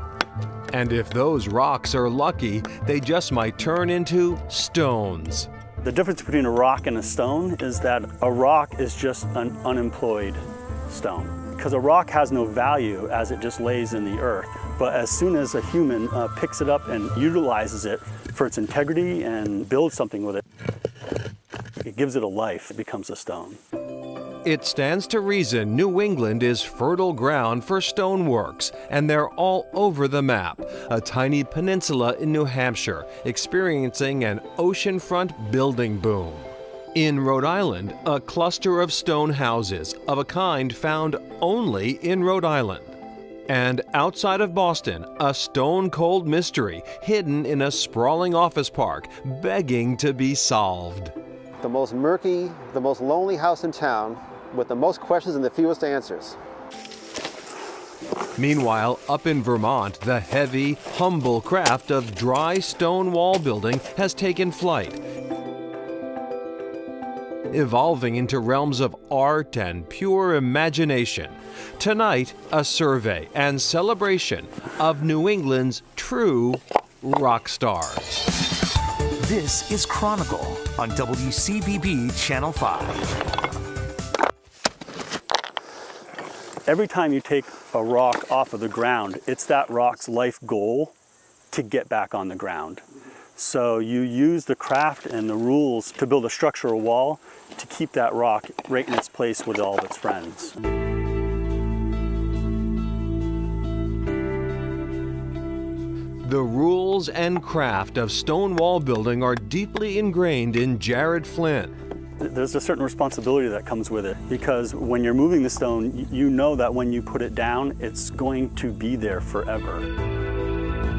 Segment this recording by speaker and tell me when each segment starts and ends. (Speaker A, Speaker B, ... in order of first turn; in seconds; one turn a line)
Speaker A: 0.7-5.5
Speaker B: 5.8-20.4
Speaker B: 21.9-23.6
Speaker A: 24.4-43.0
Speaker A: 43.5-51.1
Speaker C: 51.6-56.4
Speaker A: 58.4-65.0
Speaker A: 67.5-78.2
Speaker D: 79.2-83.1
Speaker B: 86.7-90.9
Speaker B: 91.5-92.8
Speaker B: 93.4-100.5
Speaker A: 106.2-111.7
Speaker B: 112.2-119.9